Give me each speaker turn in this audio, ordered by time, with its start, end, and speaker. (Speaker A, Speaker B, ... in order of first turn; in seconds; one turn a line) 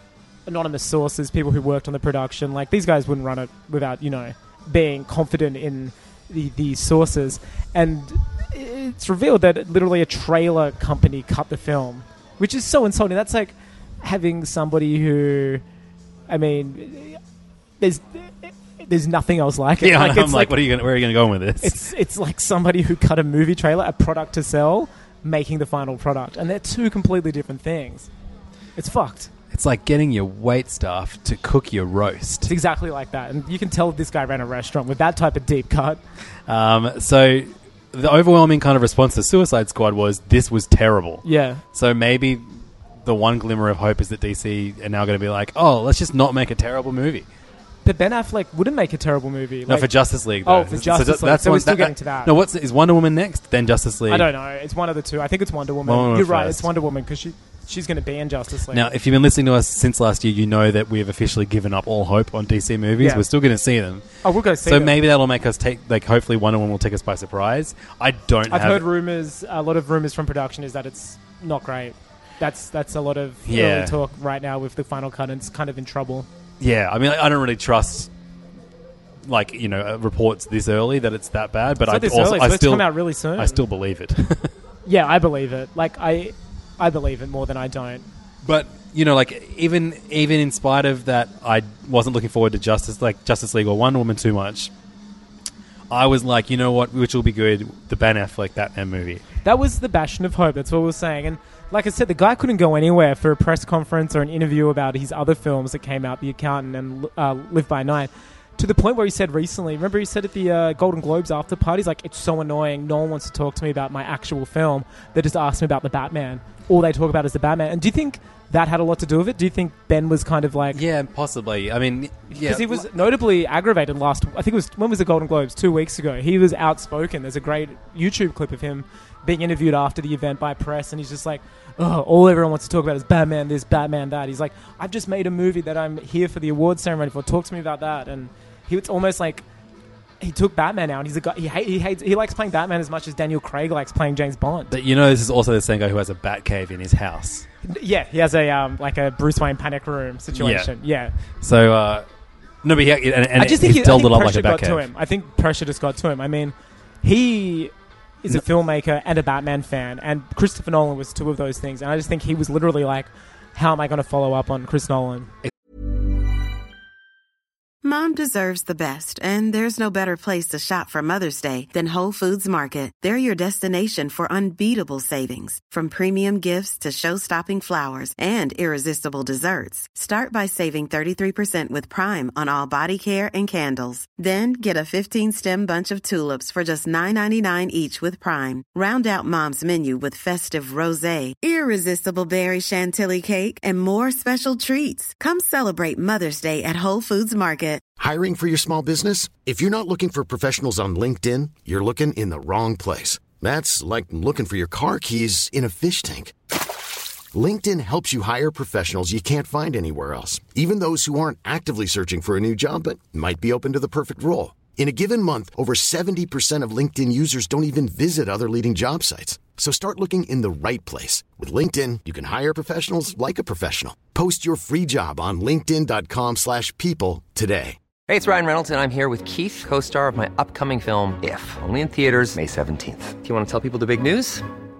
Speaker A: 0.5-15.6
Speaker A: 16.3-17.2
Speaker A: 17.8-20.6
Speaker B: 19.8-21.9
Speaker A: 21.6-28.1
Speaker A: 28.8-29.3
Speaker B: 29.5-32.5
Speaker A: 32.5-36.0
Speaker B: 36.5-47.3
Speaker A: 41.2-41.6
Speaker A: 47.8-52.3
Speaker B: 49.7-54.3
Speaker A: 54.1-58.9
Speaker B: 55.9-56.7
Speaker B: 58.7-64.0
Speaker A: 63.0-63.2
Speaker A: 64.2-65.0
Speaker B: 64.6-68.9
Speaker A: 68.5-76.3
Speaker B: 73.5-74.0
Speaker B: 76.6-78.1
Speaker B: 79.2-84.5
Speaker A: 81.8-83.6
Speaker A: 84.9-88.1
Speaker B: 88.4-94.7
Speaker B: 95.9-99.2
Speaker A: 99.4-120.8
Speaker B: 120.7-122.9
Speaker A: 122.3-139.4
Speaker A: 140.2-144.7
Speaker B: 144.7-147.4
Speaker A: 147.6-151.1
Speaker B: 150.3-150.7
Speaker B: 151.3-152.1
Speaker B: 152.6-154.9
Speaker A: 153.4-165.3
Speaker C: 167.8-197.8
Speaker D: 198.0-206.3
Speaker D: 207.3-227.8
Speaker E: 228.1-234.4